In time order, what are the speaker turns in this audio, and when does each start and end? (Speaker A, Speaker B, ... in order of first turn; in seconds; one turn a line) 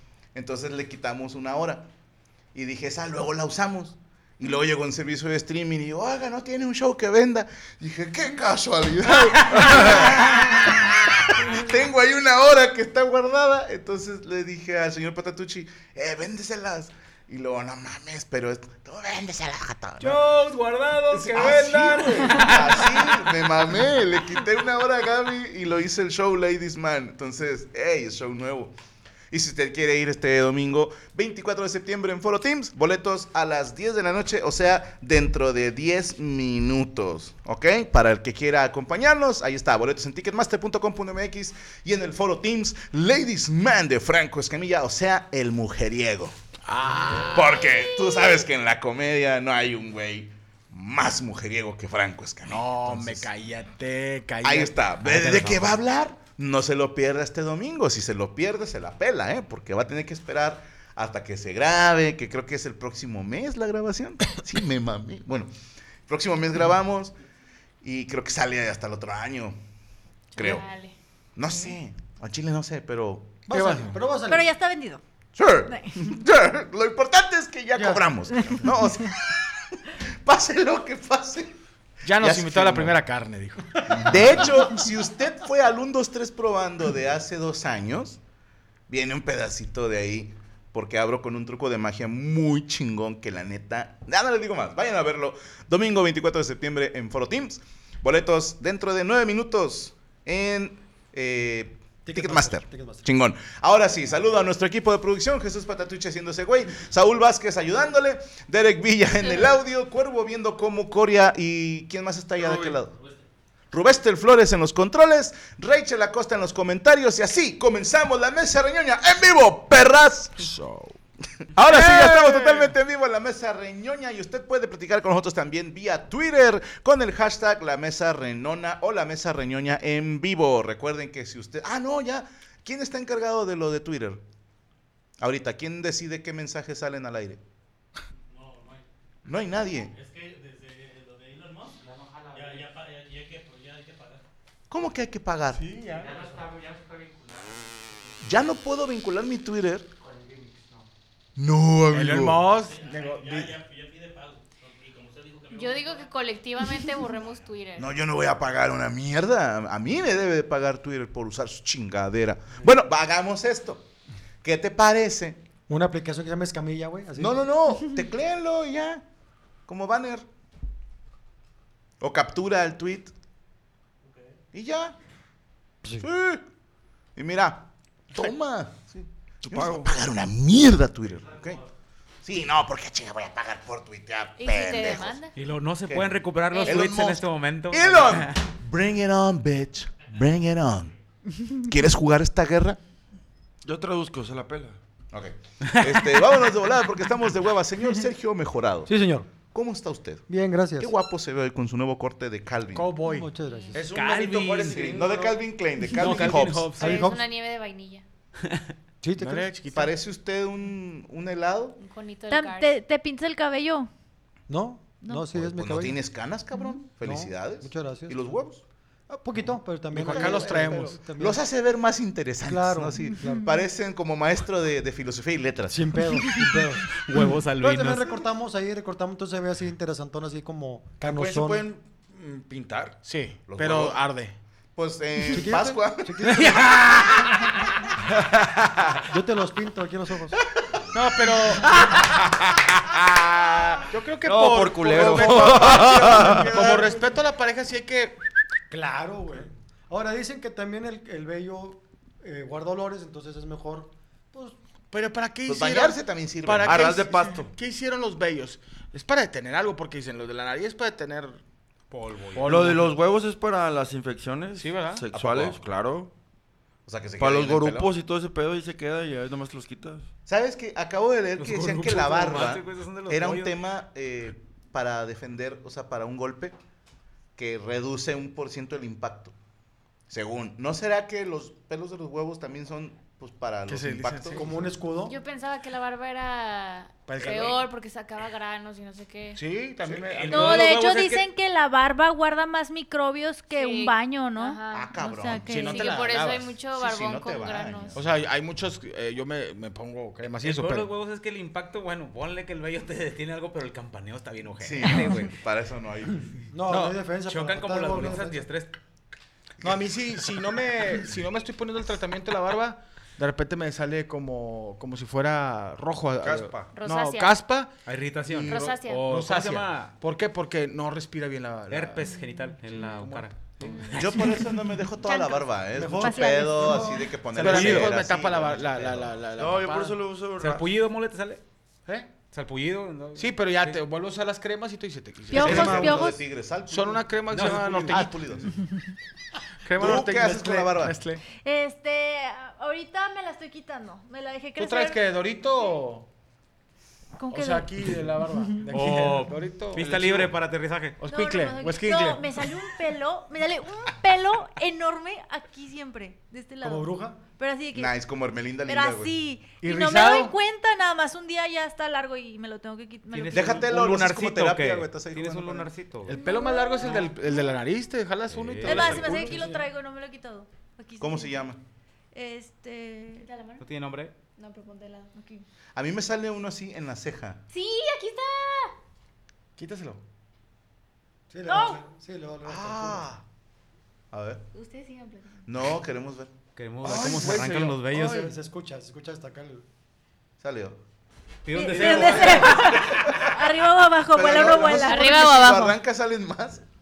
Speaker A: 0.3-1.9
Speaker A: 2.5-20.2
Speaker B: 20.0-23.4
Speaker C: 20.9-21.5
Speaker A: 21.3-28.7
Speaker A: 29.3-46.4
Speaker C: 46.7-47.7
Speaker A: 47.3-53.3
Speaker C: 52.5-54.8
Speaker A: 54.4-65.5
Speaker B: 55.0-55.8
Speaker A: 66.1-67.2
Speaker A: 67.8-69.6
Speaker D: 70.3-71.0
Speaker A: 70.4-70.7
Speaker A: 71.4-73.5
Speaker C: 73.5-74.1
Speaker E: 73.5-74.5
Speaker F: 74.3-75.0
Speaker A: 75.4-81.5
Speaker F: 75.7-76.2
Speaker E: 77.8-78.1
Speaker C: 82.0-84.2
Speaker A: 82.2-83.0
Speaker A: 83.8-88.2
Speaker A: 88.9-113.0
Speaker E: 102.0-103.0
Speaker G: 112.4-112.8
Speaker A: 113.7-120.5
Speaker C: 120.6-120.8
Speaker A: 121.5-134.2
Speaker C: 121.6-122.7
Speaker A: 135.2-137.4
Speaker A: 139.3-139.9
Speaker A: 144.7-145.7
Speaker C: 145.5-146.5
Speaker A: 148.2-149.9
Speaker A: 151.4-152.5
Speaker C: 151.9-153.7
Speaker D: 155.5-157.9
Speaker A: 157.8-163.8
Speaker A: 164.4-165.4
Speaker E: 165.7-167.4
Speaker A: 167.2-169.0
Speaker A: 169.7-170.2
Speaker A: 172.0-173.1
Speaker A: 174.5-174.9
Speaker A: 175.9-176.4
Speaker A: 177.2-181.6
Speaker G: 179.4-179.9
Speaker A: 182.2-185.2
Speaker D: 184.4-185.3
Speaker B: 185.3-188.4
Speaker A: 185.9-190.9
Speaker D: 186.5-186.9
Speaker A: 191.6-192.8
Speaker G: 193.6-194.8
Speaker A: 195.1-198.9
Speaker B: 195.7-196.2
Speaker E: 198.9-199.3
Speaker A: 199.5-200.2
Speaker E: 200.3-200.9
Speaker A: 200.8-202.9
Speaker C: 202.7-203.3
Speaker E: 203.0-203.9
Speaker D: 203.4-203.8
Speaker G: 203.7-205.4
Speaker B: 203.9-205.0
Speaker A: 204.7-206.8
Speaker B: 205.9-207.1
Speaker C: 206.1-206.5
Speaker D: 206.7-208.0
Speaker E: 206.8-207.2
Speaker E: 209.0-209.5
Speaker C: 209.2-209.9
Speaker A: 209.7-211.8
Speaker D: 211.8-212.7
Speaker F: 212.3-213.9
Speaker E: 214.5-216.0
Speaker F: 215.0-215.3
Speaker A: 215.3-218.6
Speaker E: 217.0-218.2
Speaker E: 219.1-221.4
Speaker C: 219.9-221.1
Speaker A: 219.9-226.4
Speaker E: 222.4-223.5
Speaker F: 223.2-223.6
Speaker E: 225.7-231.7
Speaker B: 227.1-228.2
Speaker G: 231.0-233.0
Speaker C: 233.0-234.4
Speaker A: 233.5-234.0
Speaker A: 234.8-236.7
Speaker E: 235.3-237.1
Speaker B: 236.3-237.5
Speaker G: 238.1-238.9
Speaker E: 239.1-240.4
Speaker C: 240.9-241.9
Speaker C: 243.2-248.2
Speaker G: 244.2-246.6
Speaker E: 244.9-247.1
Speaker E: 248.7-254.6
Speaker C: 254.9-261.4
Speaker A: 255.5-257.1
Speaker G: 256.6-257.5
Speaker B: 261.9-262.6
Speaker C: 262.4-262.9
Speaker G: 262.4-266.1
Speaker C: 264.6-265.1
Speaker A: 265.1-265.6
Speaker A: 266.9-267.9
Speaker G: 267.2-270.1
Speaker A: 270.3-276.6
Speaker B: 271.4-273.6
Speaker A: 277.4-279.3
Speaker A: 280.1-284.7
Speaker C: 283.7-284.6
Speaker E: 284.3-285.2
Speaker D: 285.1-289.4
Speaker C: 287.1-287.7
Speaker C: 289.4-290.7
Speaker A: 289.9-290.2
Speaker B: 290.1-291.2
Speaker F: 290.3-295.8
Speaker D: 293.6-294.9
Speaker A: 294.7-295.9
Speaker C: 295.5-296.6
Speaker D: 295.5-298.0
Speaker A: 296.7-298.2
Speaker C: 297.9-300.9
Speaker B: 300.4-305.4
Speaker A: 304.6-306.5
Speaker E: 306.5-308.4
Speaker C: 306.7-307.0
Speaker B: 307.3-308.7
Speaker C: 308.0-308.2
Speaker C: 309.6-317.7
Speaker G: 316.2-316.7
Speaker D: 316.7-317.3
Speaker B: 317.9-319.9
Speaker C: 318.3-322.2
Speaker D: 318.4-319.1
Speaker B: 321.7-324.4
Speaker C: 322.7-324.0
Speaker A: 324.0-329.2
Speaker D: 325.0-326.9
Speaker E: 325.7-327.1
Speaker F: 326.1-326.5
Speaker C: 327.3-330.0
Speaker B: 327.4-327.9
Speaker G: 329.4-330.6
Speaker B: 330.4-331.4
Speaker C: 331.9-332.1
Speaker B: 332.3-333.8
Speaker C: 333.2-336.0
Speaker F: 335.3-336.2
Speaker A: 335.3-338.6
Speaker G: 335.4-336.0
Speaker C: 336.7-338.5
Speaker B: 337.3-338.1
Speaker C: 339.7-341.2
Speaker A: 339.8-341.0
Speaker F: 341.3-345.0
Speaker C: 344.6-346.1
Speaker F: 347.2-347.7
Speaker C: 347.3-349.9
Speaker F: 348.4-348.7
Speaker B: 348.7-351.0
Speaker G: 349.8-350.3
Speaker C: 351.0-352.3
Speaker F: 351.1-357.9
Speaker E: 356.6-357.2
Speaker A: 357.8-359.2
Speaker F: 358.7-363.7
Speaker C: 359.6-360.3
Speaker B: 363.1-366.2
Speaker A: 363.3-365.7
Speaker C: 366.1-369.5
Speaker D: 366.1-367.1
Speaker B: 368.3-369.2
Speaker F: 368.6-371.4
Speaker E: 369.1-369.6
Speaker A: 371.0-371.6
Speaker F: 372.1-373.3
Speaker D: 373.1-373.6
Speaker B: 373.6-374.1
Speaker D: 374.4-375.4
Speaker A: 375.8-377.4
Speaker D: 377.5-378.7
Speaker C: 379.6-380.0
Speaker E: 381.3-383.1
Speaker F: 381.5-381.8
Speaker A: 382.4-383.2
Speaker A: 384.1-384.4
Speaker D: 384.5-385.4
Speaker A: 385.5-386.3
Speaker B: 386.6-388.3
Speaker G: 386.8-387.8
Speaker E: 387.9-389.6
Speaker A: 390.4-390.8
Speaker B: 391.4-392.8
Speaker F: 391.5-395.4
Speaker A: 391.8-393.4
Speaker A: 394.1-396.6
Speaker D: 394.3-395.8